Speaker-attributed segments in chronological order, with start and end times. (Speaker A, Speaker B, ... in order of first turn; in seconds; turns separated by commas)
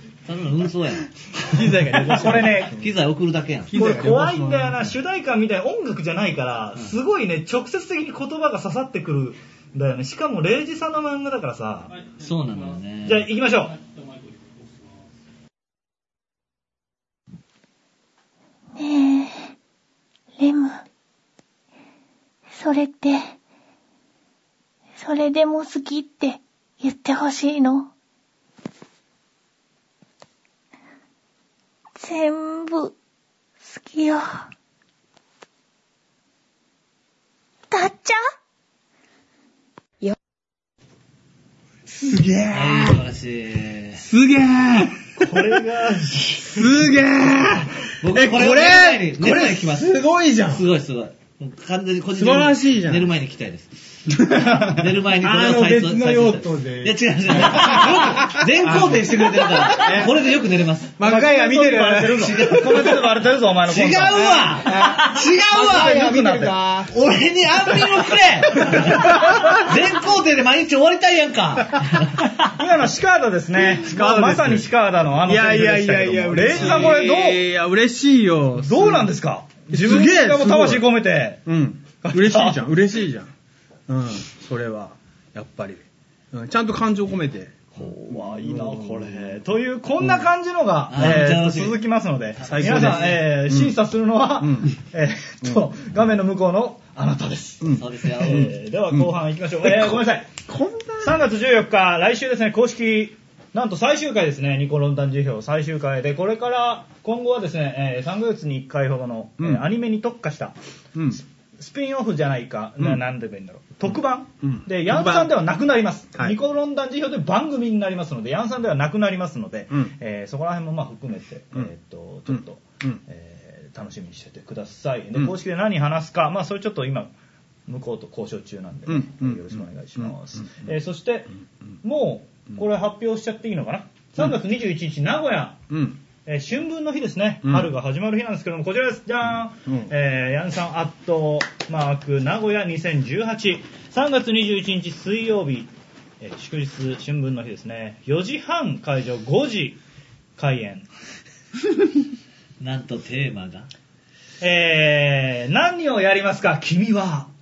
Speaker A: 0.3-1.5, Speaker B: 1.5-2.7, Speaker C: 1.5-2.8, Speaker A: 2.6-3.7, Speaker B: 3.7-4.9, Speaker C: 3.7-12.0, Speaker A: 12.2-13.3, Speaker C: 13.0-13.8, Speaker D: 18.8-19.5, Speaker D: 20.4-20.8, Speaker D: 22.5-23.4, Speaker D: 25.0-27.9, Speaker D: 32.0-33.0, Speaker D: 33.6-34.5, Speaker D: 37.7-38.2, Speaker B: 41.9-43.0, Speaker A: 42.5-44.1, Speaker B: 44.0-45.6, Speaker C: 45.2-46.7, Speaker B: 46.4-50.6, Speaker A: 48.0-61.0, Speaker B: 52.1-53.1, Speaker B: 54.1-60.1, Speaker B: 61.0-62.9, Speaker C: 61.0-64.7, Speaker A: 62.1-63.1, Speaker A: 63.6-66.0, Speaker B: 64.2-66.9, Speaker C: 65.6-66.6, Speaker A: 66.9-72.3, Speaker B: 68.5-69.7, Speaker C: 72.5-77.4, Speaker B: 73.7-79.1, Speaker C: 78.6-81.5, Speaker B: 79.7-83.3, Speaker C: 82.0-82.6, Speaker B: 83.9-89.4, Speaker C: 87.8-100.3, Speaker A: 90.9-91.8, Speaker B: 91.0-91.2, Speaker A: 92.4-93.2, Speaker B: 92.4-93.8, Speaker B: 94.4-94.7, Speaker B: 97.6-99.1, Speaker A: 97.8-98.5, Speaker B: 99.6-101.2, Speaker C: 101.0-110.5, Speaker B: 109.4-109.7, Speaker B: 111.0-111.2, Speaker C: 111.1-127.1, Speaker B: 113.9-115.5, Speaker B: 122.3-123.0, Speaker C: 127.7-131.3, Speaker B: 128.9-130.5, Speaker C: 131.8-135.7, Speaker B: 135.7-136.0, Speaker C: 136.3-149.8, Speaker B: 137.4-137.7, Speaker C: 150.4-150.9, Speaker A: 152.6-153.7, Speaker C: 154.4-157.3